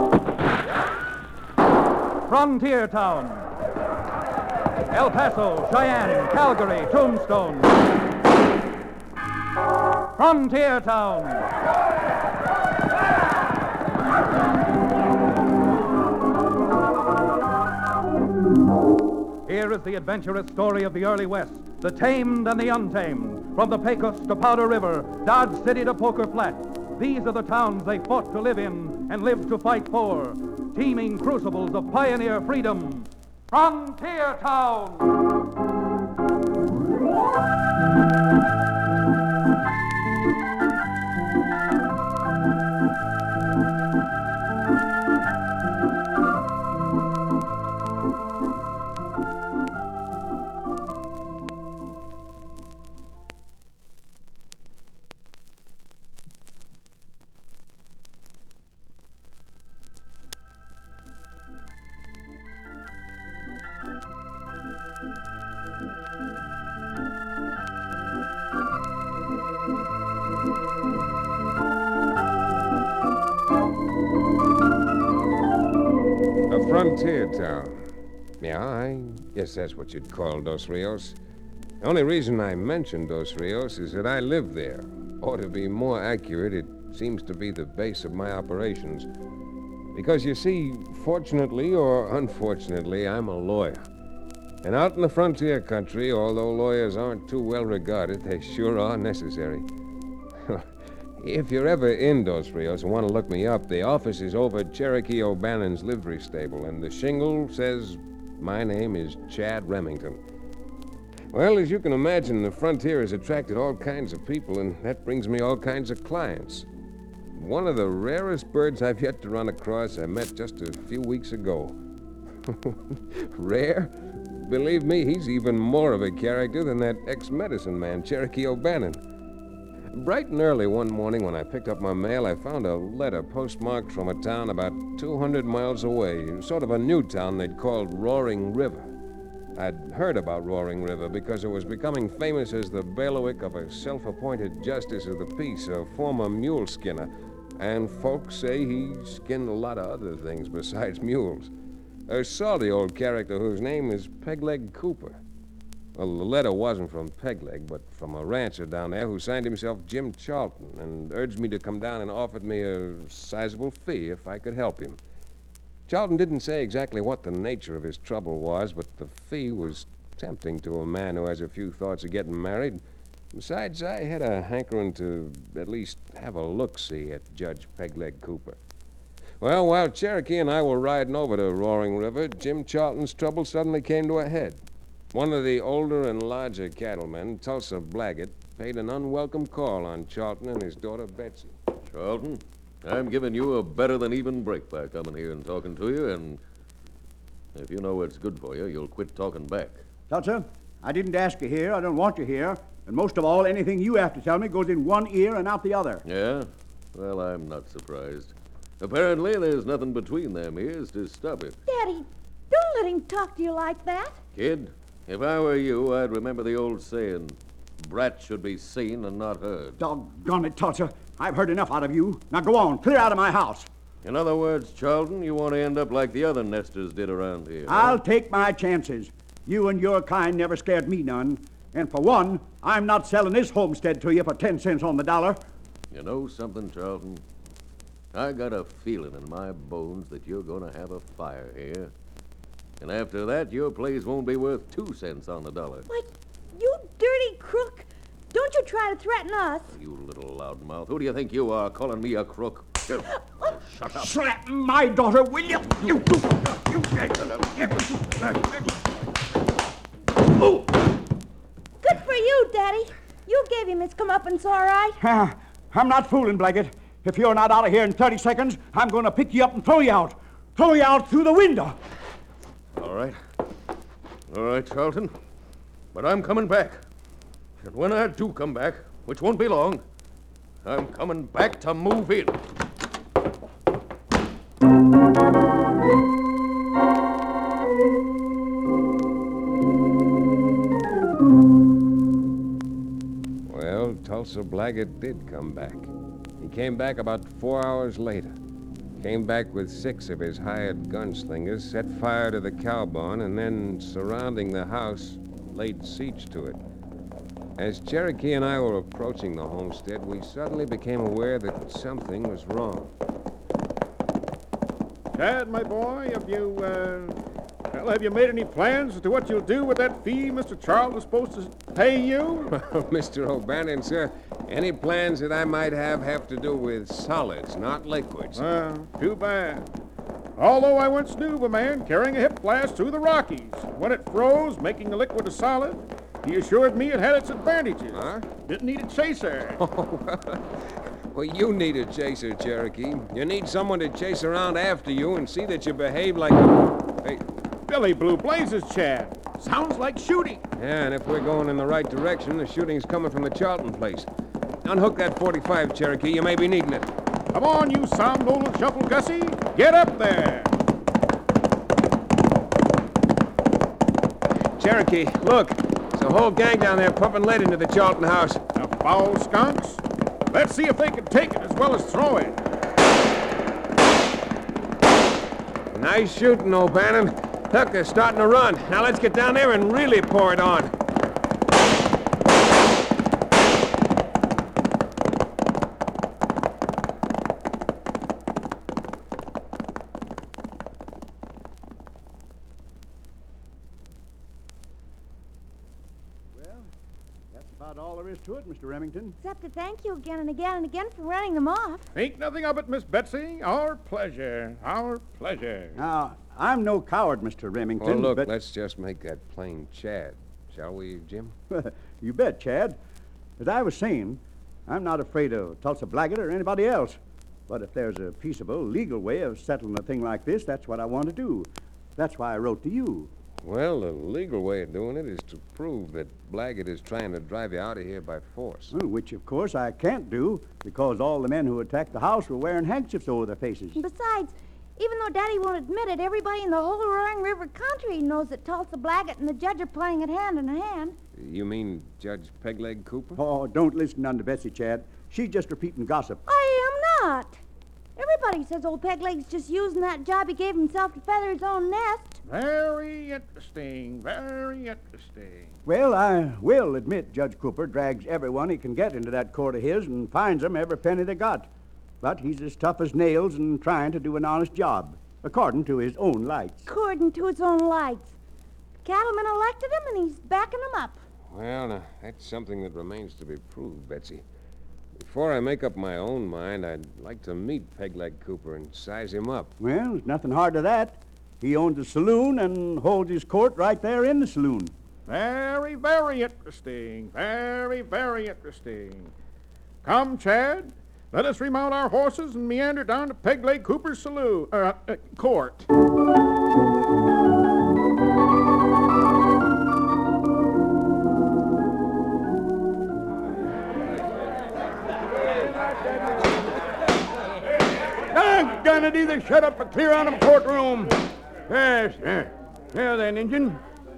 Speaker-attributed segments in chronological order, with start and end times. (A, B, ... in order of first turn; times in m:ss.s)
0:02.3-0:03.5 A
0:04.9-0:07.7 A
0:10.2-0:11.5 A
0:19.4-0:35.2 A
1:16.5-1:21.2 B
1:21.8-1:29.1 B
1:29.9-1:33.8 B
1:34.6-1:39.7 B
1:40.4-1:50.2 B
1:51.3-1:56.7 B
1:57.3-2:01.8 B
2:02.4-2:09.0 B
2:09.9-2:19.0 B
2:19.6-2:31.5 B
2:32.1-2:35.2 B
2:36.0-2:45.0 B
2:45.9-2:52.8 B
2:53.3-2:58.6 B
2:59.4-3:04.6 B
3:05.1-3:11.5 B
3:11.9-3:16.4 C
3:17.6-3:19.8 C
3:20.1-3:26.0 D
3:26.0-3:31.6 C
3:31.7-3:34.2 E
3:34.4-3:39.8 C
3:39.8-3:43.7 D
3:44.0-3:48.0 C
3:47.7-3:55.4 D
3:55.9-3:57.2 C
3:58.1-4:01.9 C
4:02.8-4:05.9 C
4:05.9-4:09.7 E
4:09.7-4:14.1 C
4:13.1-4:13.5 E
4:13.9-4:18.4 D
4:21.8-4:25.0 E
4:25.0-4:31.8 D
4:32.8-4:33.2 C
4:34.3-4:35.1 C
4:35.9-4:36.8 C
4:37.6-4:39.8 C
4:40.6-4:42.4 C
4:53.5-4:58.4 B
4:59.0-5:06.6 B
5:07.6-5:12.9 B
5:15.1-5:17.2 F
5:17.7-5:22.5 F
5:22.5-5:28.5 B
5:28.4-5:29.7 F
5:30.4-5:39.6 F
5:37.9-5:38.3 B
5:39.6-5:47.3 B
5:47.7-5:50.4 F
5:50.6-5:54.1 B
5:54.6-5:56.9 B
5:57.3-6:00.5 F
6:04.6-6:08.4 B
6:08.6-6:12.4 F
6:15.7-6:20.7 B
6:36.4-6:36.7 D
6:37.3-6:39.2 D
6:39.2-6:41.9 E
6:42.0-6:45.8 F
6:45.8-6:48.3 D
6:47.8-6:51.4 B
6:51.5-6:52.8 D
6:53.4-7:03.1 D
7:03.4-7:08.7 B
7:08.7-7:13.8 D
7:13.8-7:21.0 E
7:21.2-7:23.2 B
7:23.2-7:26.2 D
7:26.3-7:27.4 E
7:28.0-7:32.2 E
7:32.3-7:35.5 F
7:35.6-7:41.5 D
7:42.0-7:46.7 D
7:46.7-7:48.1 E
7:48.8-7:51.0 E
7:51.3-7:54.2 B
7:55.0-7:59.5 B
7:59.6-8:04.7 D
8:05.1-8:09.1 F
8:09.8-8:15.7 F
8:28.1-8:31.0 G
8:31.5-8:33.6 G